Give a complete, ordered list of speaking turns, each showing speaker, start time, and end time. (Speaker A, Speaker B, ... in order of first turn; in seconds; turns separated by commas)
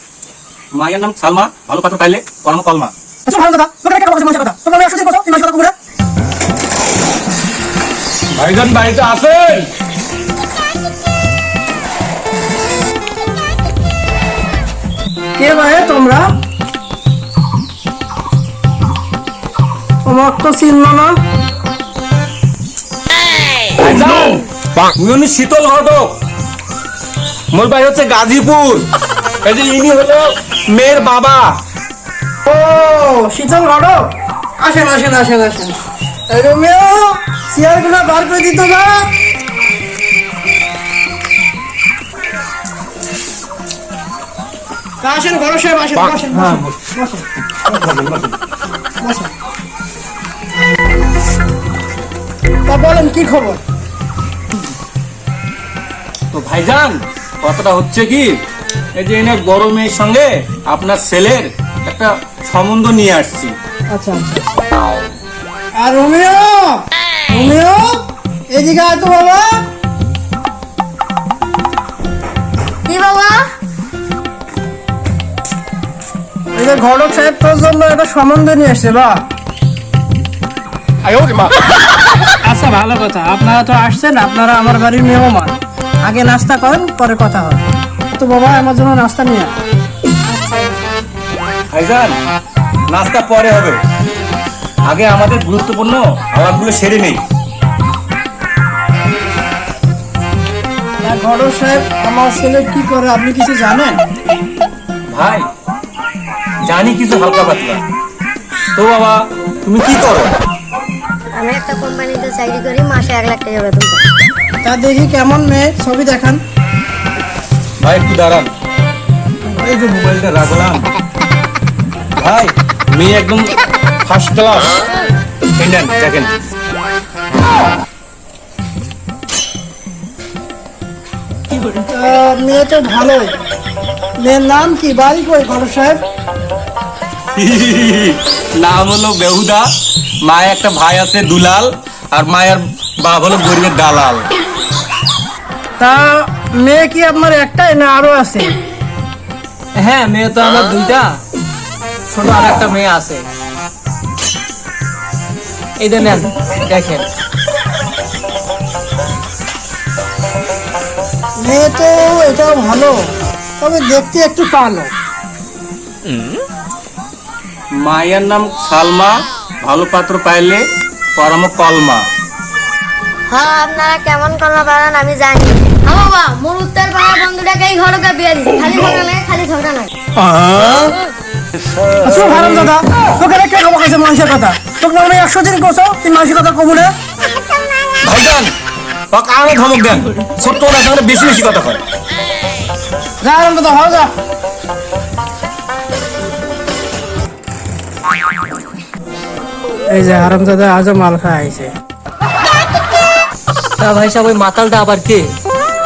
Speaker A: 0.7-2.9, Speaker B: 3.2-5.7, Speaker A: 8.3-9.7, Speaker B: 15.4-16.3, Speaker B: 20.0-21.2, Speaker A: 23.8-24.4, Speaker A: 24.9-26.1, Speaker A: 27.5-28.9, Speaker A: 29.4-31.6, Speaker B: 32.5-35.8, Speaker B: 36.3-39.1, Speaker B: 45.0-47.2, Speaker A: 47.8-48.3, Speaker B: 49.0-49.3, Speaker B: 52.7-53.6, Speaker A: 56.3-58.3, Speaker A: 59.0-63.5, Speaker B: 63.9-64.6, Speaker B: 65.8-69.6, Speaker C: 72.9-73.5, Speaker B: 76.5-79.3, Speaker B: 82.4-89.6, Speaker B: 90.3-90.6, Speaker A: 91.7-92.1, Speaker A: 92.9-93.8, Speaker A: 94.9-97.2, Speaker B: 101.0-104.0, Speaker A: 105.1-105.5, Speaker A: 106.7-107.8, Speaker A: 108.8-110.4, Speaker C: 111.4-114.0, Speaker B: 114.6-116.4, Speaker A: 117.8-118.5, Speaker A: 119.5-120.8, Speaker A: 122.2-124.7, Speaker A: 125.6-126.3, Speaker B: 131.8-133.3, Speaker B: 134.2-136.0, Speaker A: 137.4-139.7, Speaker A: 140.2-144.2, Speaker B: 145.8-148.6, Speaker D: 149.8-151.1, Speaker D: 152.1-153.2, Speaker D: 155.8-157.1, Speaker B: 161.4-163.0, Speaker B: 163.6-164.9, Speaker A: 167.8-170.6, Speaker A: 171.2-172.1, Speaker C: 173.3-179.9, Speaker B: 182.0-186.9, Speaker A: 188.0-188.5, Speaker A: 189.1-191.8, Speaker B: 193.2-194.1, Speaker B: 199.9-201.7, Speaker D: 203.8-205.3